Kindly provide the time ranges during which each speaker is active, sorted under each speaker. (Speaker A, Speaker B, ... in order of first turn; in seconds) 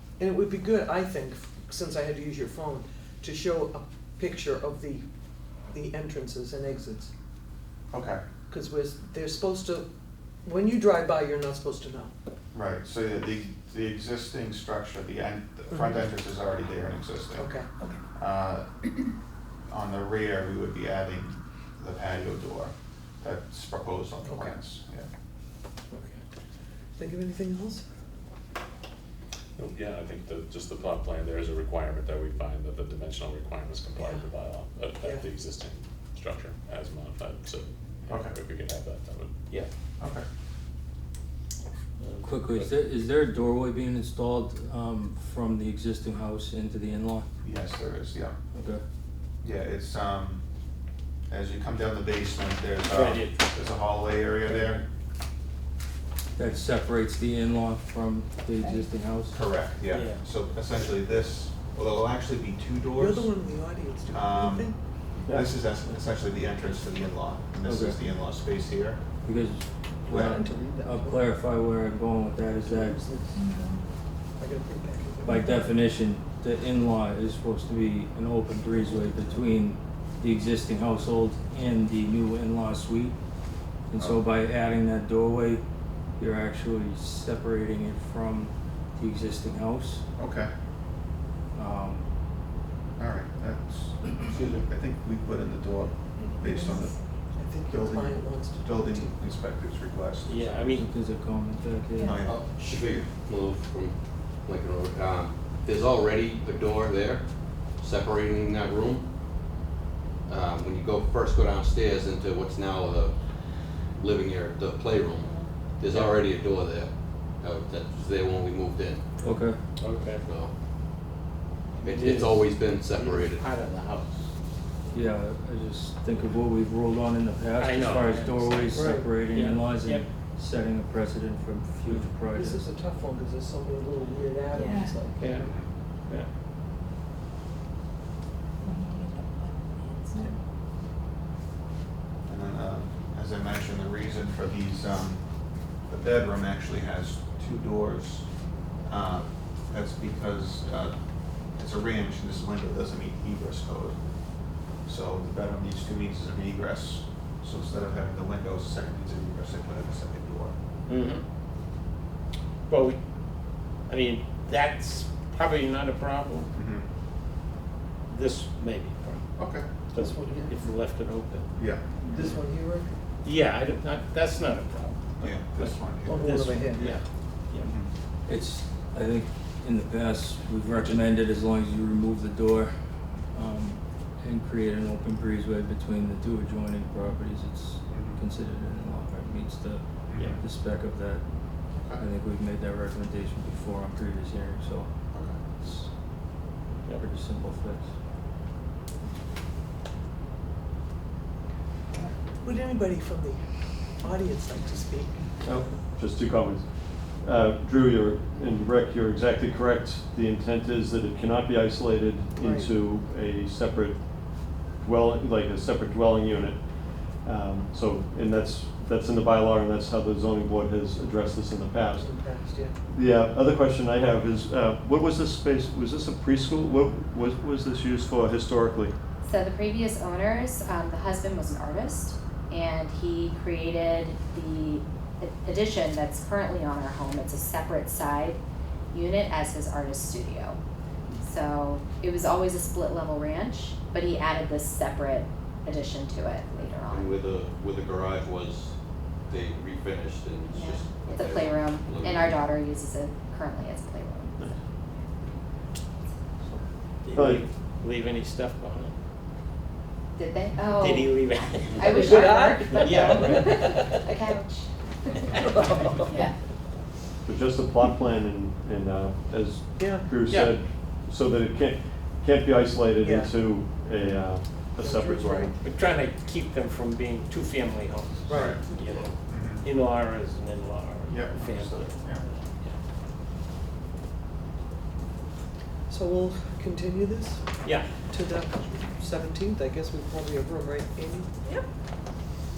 Speaker A: 0.2-5.1, 5.6-7.1, 8.5-9.9, 10.4-12.1, 15.7-16.1, 17.4-17.9, 24.2-24.6, 27.0-27.9, 34.0-34.3, 35.0-35.3, 63.0-64.8, 70.1-71.3, 72.6-73.8, 74.4-75.9, 78.7-79.4, 97.3-99.2, 128.7-129.2, 132.3-135.5, 138.8-139.2, 140.1-140.4, 170.0-170.6, 172.0-172.9, 176.1-177.0, 202.4-205.3, 212.4-212.7, 222.0-222.8, 262.0-264.0, 265.3-266.2, 269.8-270.1, 273.0-273.3, 274.7-275.6, 278.3-279.0, 285.9-287.5, 288.1-291.6
Speaker B: 7.9-8.2, 12.5-17.5, 18.1-18.7, 19.7-25.1, 38.1-38.3, 40.0-40.2, 47.4-48.3, 49.4-50.4, 51.3-54.8, 59.3-63.3, 64.1-69.0, 70.1-70.4, 84.0-84.2, 90.2-90.5, 93.0-97.0, 97.7-100.8, 102.0-103.1, 135.4-135.7, 142.3-148.3, 148.8-160.6, 166.5-166.9, 169.4-169.7, 171.6-171.8, 175.2-176.5, 177.6-177.9, 187.9-188.2, 190.1-190.4, 191.7-192.0, 195.1-195.4, 278.3-279.7, 281.1-282.2
Speaker C: 29.6-39.3
Speaker D: 42.0-42.8, 52.9-53.4, 54.5-54.8, 59.9-60.2, 94.3-94.6, 100.3-100.9, 119.2-120.3, 121.8-124.2, 127.6-130.1, 131.9-132.2, 135.1-135.5, 160.9-161.2, 162.7-163.0, 163.9-166.5, 168.1-169.3, 169.9-171.5, 173.2-177.8, 180.7-181.0, 257.0-259.0, 260.7-263.6, 270.2-270.6, 275.6-282.8, 287.6-288.0
Speaker E: 42.2-47.3, 48.5-48.8, 56.4-59.4, 67.7-68.0, 69.2-73.0, 75.2-83.2, 83.9-85.6, 86.2-90.0, 91.5-92.1, 100.8-102.2, 119.2-119.6, 124.9-132.7, 178.3-182.7, 183.3-195.9, 197.0-197.9
Speaker F: 102.3-109.7, 110.3-119.1, 120.2-120.5, 121.8-123.4, 246.9-252.4
Speaker G: 115.1-115.6, 229.2-238.4, 238.9-240.6, 241.2-247.2, 250.5-254.4, 260.2-265.3
Speaker H: 205.4-222.1, 222.9-228.9, 257.1-257.4, 267.2-275.6